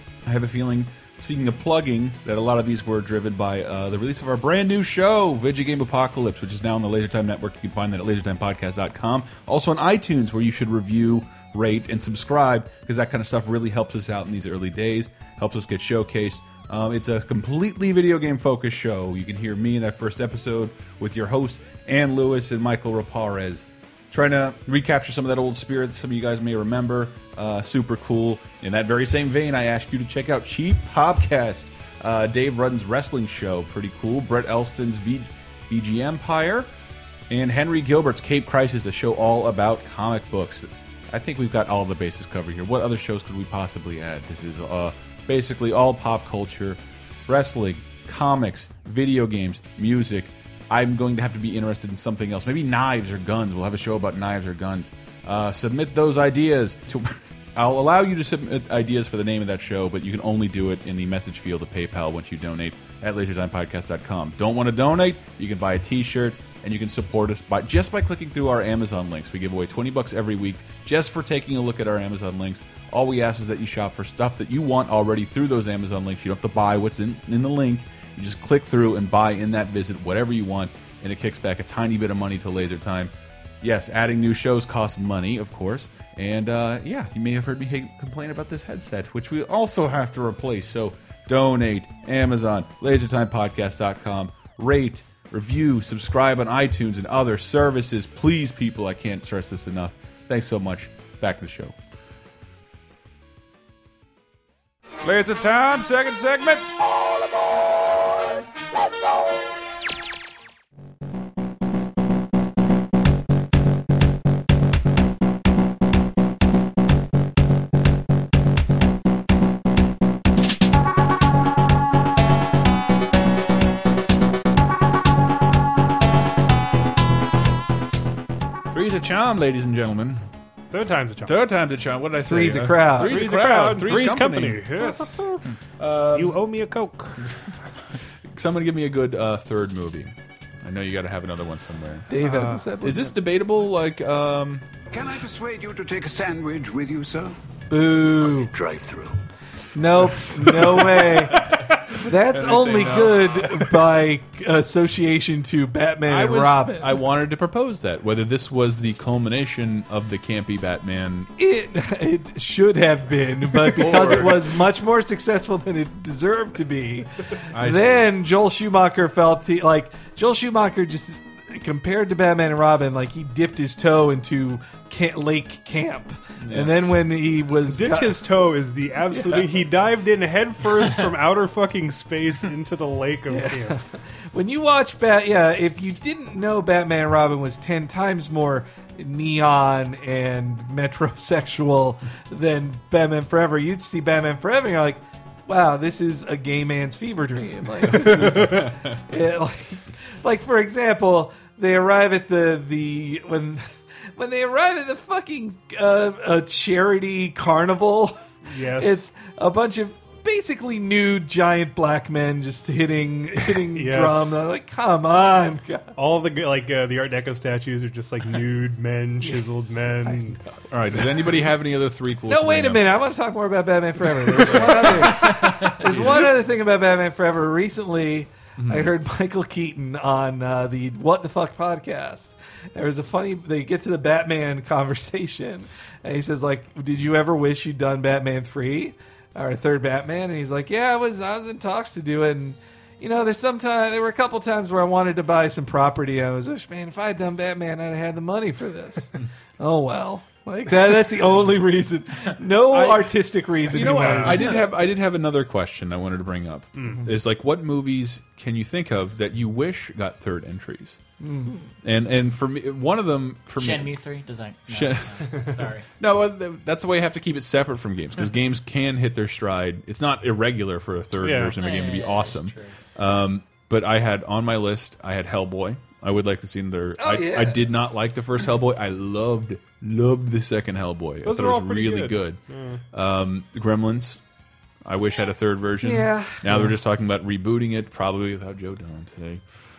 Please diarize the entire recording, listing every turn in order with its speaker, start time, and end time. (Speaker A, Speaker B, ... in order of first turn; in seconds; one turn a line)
Speaker A: 0.3-36.7
Speaker A: 37.3-101.8
Speaker A: 105.0-106.7
Speaker A: 128.7-130.2
Speaker B: 130.7-131.4
Speaker A: 131.2-134.8
Speaker C: 132.3-133.3
Speaker B: 132.9-135.5
Speaker A: 135.8-136.4
Speaker B: 136.1-137.3
Speaker A: 138.3-142.2
Speaker C: 142.1-143.2
Speaker B: 142.2-142.6
Speaker A: 142.8-144.7
Speaker D: 144.9-147.4
Speaker C: 147.7-148.5
Speaker D: 147.9-149.2
Speaker C: 149.8-157.0
Speaker A: 150.4-153.7
Speaker A: 156.1-161.3
Speaker C: 161.4-178.3
Speaker A: 163.7-164.6
Speaker A: 167.5-168.1
Speaker A: 176.4-176.8
Speaker B: 177.7-183.8
Speaker C: 179.1-179.5
Speaker C: 183.3-215.9
Speaker B: 208.5-209.0
Speaker B: 213.7-214.4
Speaker B: 216.0-220.4
Speaker C: 219.2-220.3
Speaker A: 220.7-222.9
Speaker C: 222.3-254.7
Speaker A: 224.3-226.4
Speaker A: 228.6-228.9
Speaker A: 252.7-253.0
Speaker B: 253.7-254.7
Speaker A: 253.7-261.0
Speaker B: 256.8-257.1
Speaker C: 261.2-261.7
Speaker A: 261.8-264.0
Speaker E: 263.6-265.9
Speaker A: 264.7-282.4
Speaker B: 271.2-271.6
Speaker E: 271.5-272.8
Speaker C: 277.0-277.7
Speaker B: 281.2-282.8
Speaker A: 282.9-284.2
Speaker A: 284.9-289.4
Speaker C: 285.8-286.7